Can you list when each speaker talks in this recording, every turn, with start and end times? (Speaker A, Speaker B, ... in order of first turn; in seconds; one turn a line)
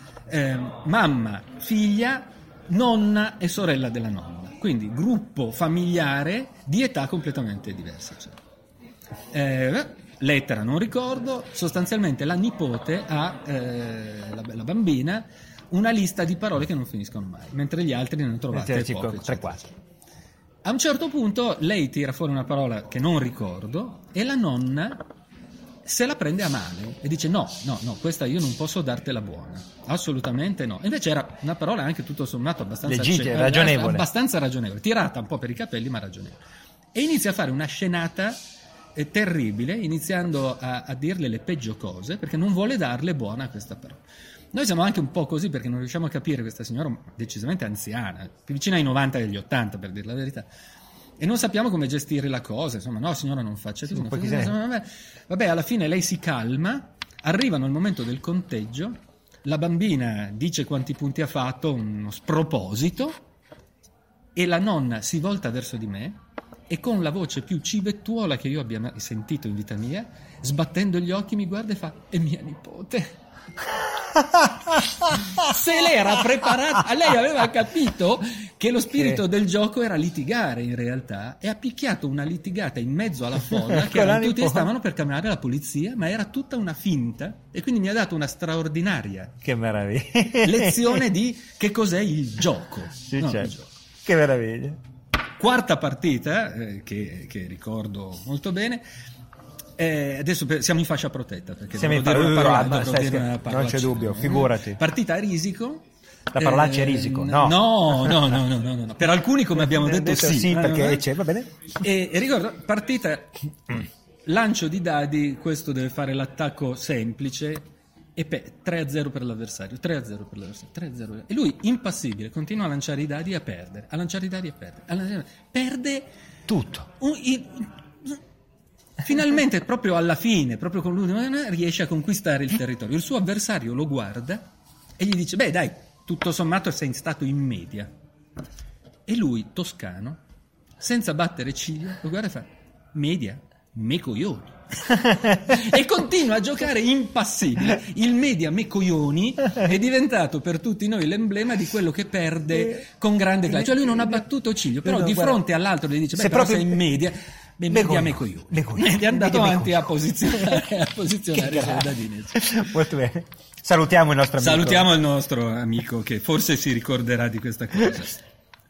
Speaker A: 0.3-8.4
Speaker A: 9.3-19.8
Speaker B: 18.5-19.7
Speaker A: 20.6-25.0
Speaker A: 25.8-36.4
Speaker B: 32.8-34.1
Speaker A: 36.9-38.4
Speaker A: 38.9-50.5
Speaker A: 51.2-63.2
Speaker B: 53.9-54.5
Speaker A: 64.3-73.2
Speaker B: 74.0-75.5
Speaker A: 75.3-89.3
Speaker B: 79.0-79.2
Speaker B: 83.5-84.7
Speaker B: 89.4-91.0
Speaker A: 90.4-93.7
Speaker B: 93.1-93.5
Speaker B: 94.0-94.8
Speaker A: 95.4-98.8
Speaker A: 99.8-105.8
Speaker B: 101.8-104.8
Speaker B: 106.3-108.3
Speaker A: 106.3-111.1
Speaker B: 109.5-111.5
Speaker A: 111.8-126.1
Speaker B: 126.5-126.9
Speaker A: 127.0-128.2
Speaker A: 129.0-134.4
Speaker A: 135.0-137.9
Speaker A: 139.1-140.2
Speaker A: 140.8-162.5
Speaker B: 152.5-152.8
Speaker B: 153.5-154.2
Speaker B: 154.8-155.4
Speaker B: 156.1-156.9
Speaker B: 157.7-160.6
Speaker B: 161.3-164.9
Speaker A: 164.4-168.2